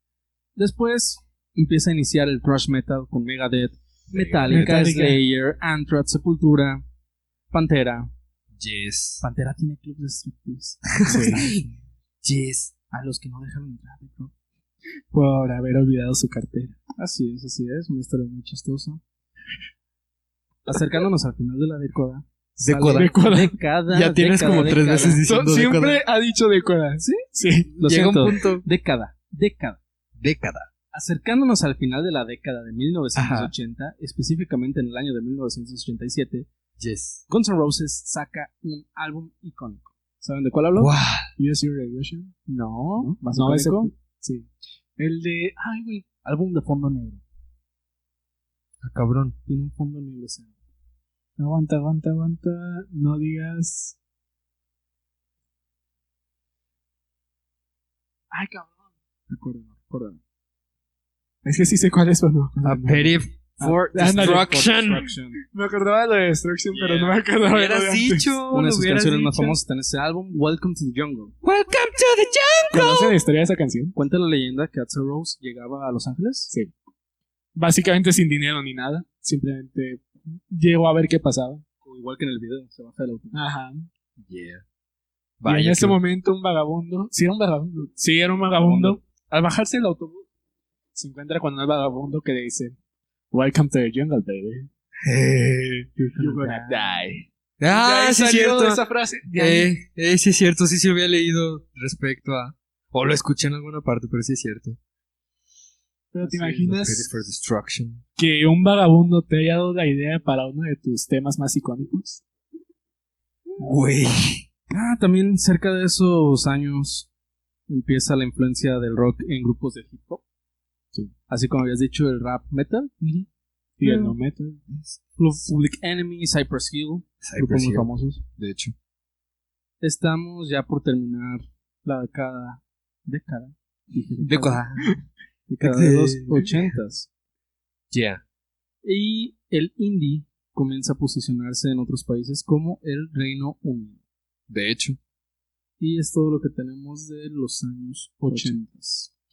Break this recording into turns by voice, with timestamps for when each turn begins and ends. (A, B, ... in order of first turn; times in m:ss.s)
0:00.6-0:06.8 A
0:04.1-0:04.9 B
0:04.5-0:05.2 C
0:07.5-0:08.1 A
0:08.6-0:09.2 B
0:09.2-0:11.7 A
0:10.9-0:11.6 B
0:11.1-0:11.5 C
0:12.2-0:12.7 B
0:12.9-0:14.3 A
0:15.1-0:16.7 C
0:17.0-0:19.0 A
0:20.7-0:25.2 A
0:22.6-0:23.3 B
0:22.9-0:23.5 C
0:23.9-0:26.0 B
0:25.2-0:27.7 C
0:27.0-0:29.8 A
0:27.8-0:28.6 B
0:30.2-0:30.7 B
0:30.9-0:36.5 A
0:33.1-0:33.5 B
0:36.8-0:37.2 B
0:37.3-0:40.9 A
0:40.8-0:41.3 B
0:41.4-0:42.4 C
0:42.5-0:43.9 A
0:43.0-0:46.1 C
0:46.2-0:47.2 A
0:48.8-0:49.3 B
0:49.4-0:50.5 A
0:51.4-0:54.0 C
0:58.3-1:00.2 C
0:59.7-1:00.2 A
1:01.4-1:08.3 C
1:02.6-1:05.0 B
1:03.7-1:05.4 A
1:06.7-1:09.6 B
1:08.5-1:11.3 A
1:11.4-1:13.1 B
1:12.7-1:13.9 C
1:13.9-1:16.5 A
1:17.5-1:21.6 C
1:21.8-1:23.4 A
1:23.3-1:23.9 C
1:24.2-1:24.6 B
1:25.4-1:26.0 B
1:25.4-1:30.2 C
1:28.6-1:29.0 A
1:30.9-1:32.8 C
1:33.3-1:34.7 C
1:35.0-1:35.9 B
1:36.0-1:36.9 A
1:36.2-1:39.7 C
1:37.6-1:38.8 B
1:39.3-1:44.8 B
1:46.1-1:47.1 C
1:46.2-1:48.0 B
1:48.2-1:52.2 C
1:53.6-1:54.4 B
1:54.7-1:57.1 A
1:57.7-2:00.2 A
2:01.3-2:02.9 A
2:03.0-2:03.3 C
2:03.8-2:04.6 C
2:03.8-2:04.2 A
2:04.7-2:05.0 B
2:05.2-2:08.2 A
2:07.2-2:08.7 B
2:09.8-2:14.6 A
2:14.2-2:15.0 B
2:15.5-2:17.1 A
2:15.6-2:16.6 B
2:17.9-2:18.2 B
2:18.8-2:24.0 A
2:24.5-2:25.0 B
2:25.8-2:29.1 A
2:28.3-2:28.6 C